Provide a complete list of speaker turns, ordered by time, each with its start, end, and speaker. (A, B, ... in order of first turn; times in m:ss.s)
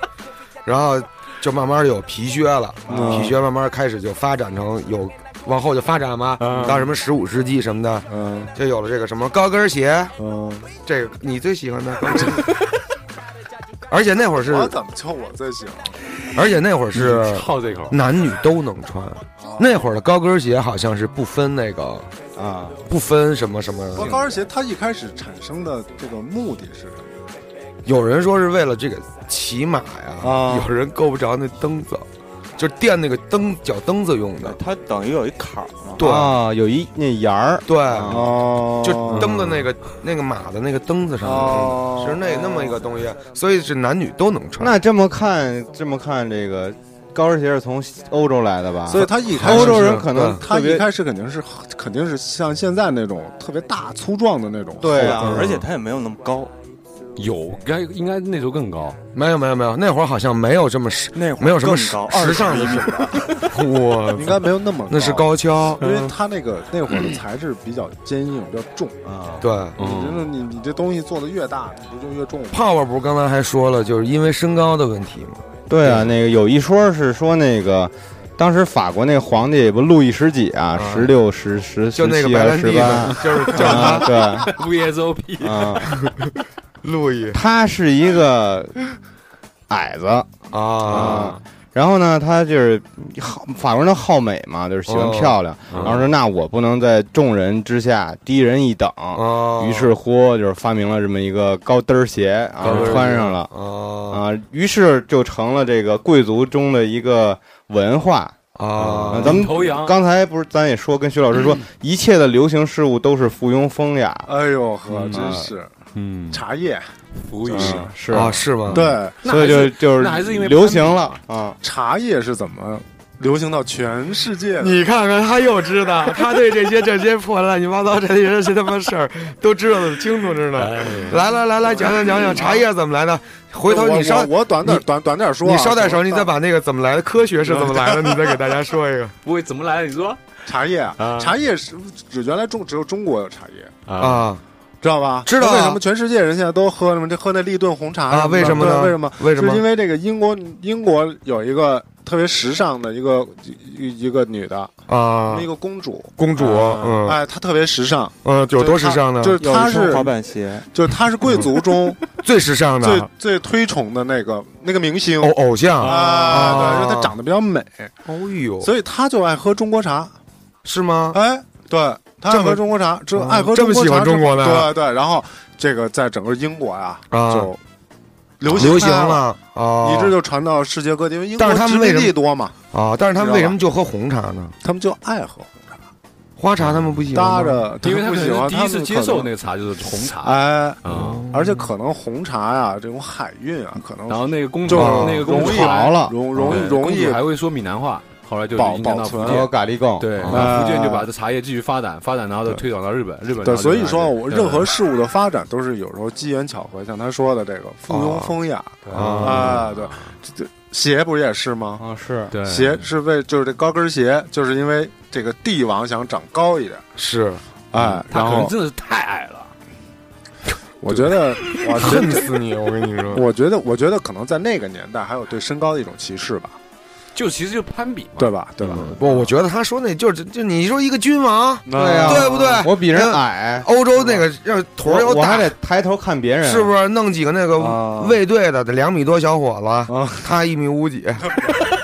0:00.6-0:10.1 A
0:02.9-0:03.4 B
0:06.4-0:06.8 C
0:06.5-0:06.9 B
0:08.1-0:08.5 B
0:10.2-0:10.7 B
0:10.8-0:12.6 A
0:13.9-0:14.8 A
0:14.4-0:15.9 B
0:16.3-0:22.1 A
0:16.9-0:17.9 C
0:19.4-0:19.8 B
0:22.4-0:22.8 D
0:22.9-0:24.2 A
0:23.9-0:27.1 B
0:27.8-0:32.0 A
0:30.2-0:30.7 B
0:32.6-0:34.6 A
0:34.4-0:36.0 E
0:36.0-0:36.4 A
0:36.0-0:38.4 D
0:37.7-0:44.8 A
0:38.0-0:39.6 B
0:41.2-0:42.7 B
0:44.6-0:50.9 D
0:48.8-0:55.7 B
0:49.0-0:50.4 A
0:54.8-0:55.5 D
0:54.9-0:56.5 E
0:57.2-0:59.0 C
0:59.1-1:05.8 A
1:01.1-1:03.5 E
1:04.1-1:09.1 B
1:05.8-1:06.1 C
1:09.0-1:09.4 E
1:09.4-1:09.8 A
1:09.8-1:10.3 C
1:09.8-1:12.6 B
1:12.5-1:16.1 A
1:15.7-1:24.5 D
1:20.8-1:21.2 A
1:22.0-1:24.1 A
1:24.5-1:25.8 C
1:25.4-1:25.9 D
1:25.9-1:27.4 A
1:27.3-1:28.8 D
1:29.7-1:30.3 D
1:30.5-1:31.3 A
1:30.8-1:43.5 D
1:30.9-1:31.4 C
1:34.9-1:36.0 A
1:35.7-1:36.0 C
1:39.1-1:39.9 A
1:42.6-1:44.2 A
1:42.6-1:43.1 C
1:44.1-1:48.4 D
1:48.6-1:49.5 A
1:48.8-1:50.0 C
1:49.1-1:54.3 D
1:54.3-1:55.7 B
1:54.9-1:55.2 C
1:55.1-1:55.5 D
1:55.9-1:56.4 C
1:56.3-1:56.9 B
1:57.1-1:57.9 C
1:57.4-1:57.9 B
1:57.5-1:58.5 D
1:58.1-1:59.0 A
1:58.7-2:01.2 C
1:58.7-1:59.2 B
1:59.2-2:01.6 D
2:01.6-2:04.8 B
2:04.6-2:14.8 A
2:10.6-2:11.2 C
2:11.7-2:12.6 B
2:13.6-2:16.3 B
2:15.4-2:19.1 A
2:17.5-2:18.0 C
2:19.2-2:20.2 C
2:20.4-2:23.7 B
2:21.0-2:21.3 C
2:23.9-2:24.3 C
2:24.0-2:24.4 A
2:24.8-2:34.7 B
2:25.2-2:25.8 A
2:28.1-2:29.6 A
2:34.9-2:35.5 A
2:35.2-2:40.2 B
2:36.2-2:37.2 A
2:38.2-2:39.4 A
2:39.4-2:40.7 E
2:40.7-2:42.0 B
2:41.2-2:41.6 A
2:42.2-2:43.1 A
2:42.8-2:47.9 B
2:45.2-2:47.1 A
2:45.8-2:46.6 C
2:48.0-2:48.7 A
2:48.6-2:50.1 B
2:50.6-2:51.2 A
2:51.1-2:57.6 B
2:52.3-2:54.8 A
2:57.1-2:57.5 A
2:58.4-2:59.2 B
2:58.4-3:00.2 A
2:59.8-3:02.5 B
3:01.4-3:02.2 A
3:02.7-3:04.5 A
3:03.2-3:03.6 B
3:04.6-3:05.8 B
3:06.4-3:07.7 A
3:07.1-3:09.3 B
3:07.8-3:11.2 C
3:10.1-3:17.2 B
3:10.9-3:11.7 A
3:14.1-3:24.7 C
3:14.7-3:15.3 A
3:15.3-3:16.2 D
3:18.5-3:19.5 B
3:19.2-3:20.3 D
3:20.2-3:20.6 A
3:20.2-3:21.1 B
3:23.4-3:31.8 B
3:27.9-3:28.4 A
3:28.8-3:30.1 C
3:28.9-3:29.6 A
3:31.8-3:32.3 D
3:32.3-3:32.8 C
3:32.4-3:36.8 B
3:37.0-3:37.9 A
3:37.7-3:38.5 B
3:37.8-3:39.5 C
3:40.8-3:42.4 B
3:41.8-3:43.2 A
3:43.1-3:46.6 B
3:47.1-3:49.2 C
3:48.2-3:49.2 B
3:48.6-3:55.5 A
3:51.6-3:52.7 B
3:51.7-3:53.7 D
3:54.8-3:56.7 D
3:56.4-4:01.5 A
3:57.6-3:58.2 B
3:59.9-4:00.3 B